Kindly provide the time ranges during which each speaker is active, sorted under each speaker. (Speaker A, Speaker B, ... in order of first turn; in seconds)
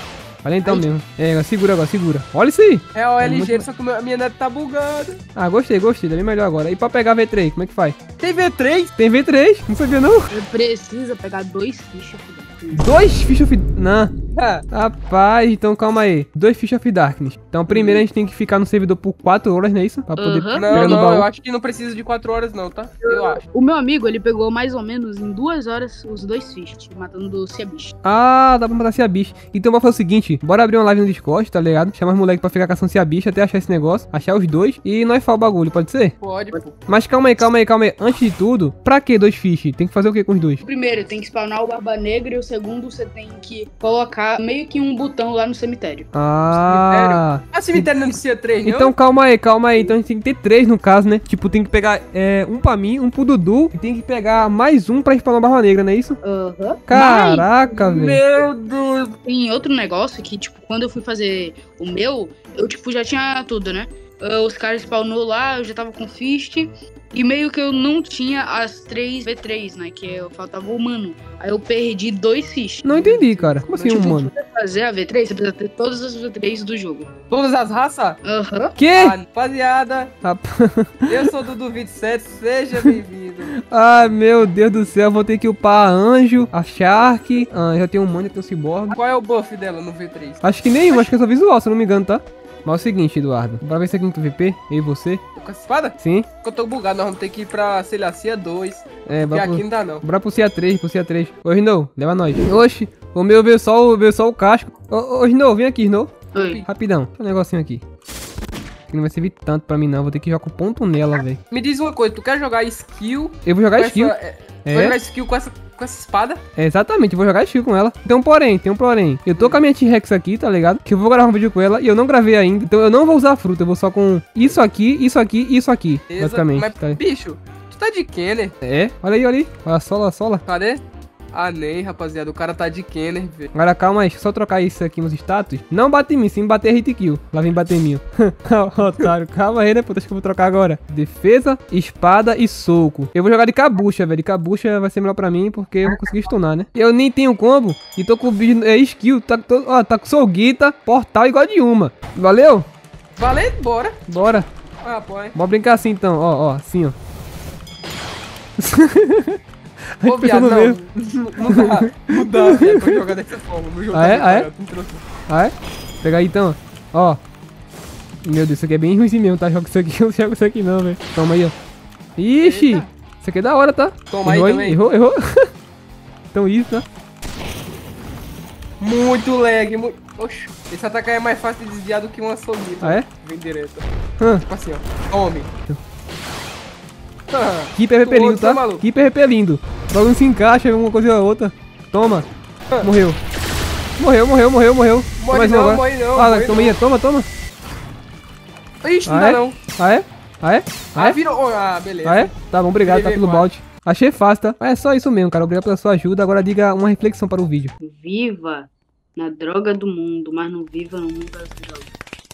Speaker A: 0.4-3.7, 5.3-8.0, 9.0-10.3, 12.8-14.1, 14.7-21.3, 28.0-36.1, 36.9-40.6, 46.1-47.8, 48.6-56.2, 56.9-58.2, 72.8-74.3, 78.8-79.2, 80.2-81.3, 83.6-89.0, 90.4-95.2, 96.0-96.3, 99.0-107.8, 108.9-111.4, 113.5-115.0, 116.5-127.0, 128.6-130.4, 133.5-152.7, 154.1-154.5, 155.3-156.9, 158.6-159.4, 160.0-160.8, 161.3-163.0, 163.9-164.5, 165.3-167.2, 168.2-171.5, 172.2-175.5, 176.3-176.8, 187.8-192.3, 192.8-193.2, 194.0-197.3, 199.1-201.2, 202.0-207.7
Speaker B: 2.9-5.2, 8.2-8.9, 14.3-14.6, 17.7-18.1, 20.5-23.4, 36.2-36.7, 46.5-48.9, 57.7-59.2, 77.3-78.2, 78.9-80.1, 81.1-83.6, 88.9-91.1, 95.3-100.0, 106.4-106.7, 111.5-116.4, 119.3-119.6, 126.1-128.6, 130.4-130.8, 131.3-133.5, 153.2-155.3, 160.0-165.1, 172.4-172.9, 174.1-174.8, 178.8-183.8, 184.4-185.5, 187.3-188.8, 195.2-196.8, 198.8-199.6, 200.9-203.5
Speaker C: 10.3-12.9, 20.1-21.1, 23.0-27.9, 40.6-46.1, 56.2-57.5, 59.2-77.2, 78.2-78.8, 106.3-106.7, 207.8-211.9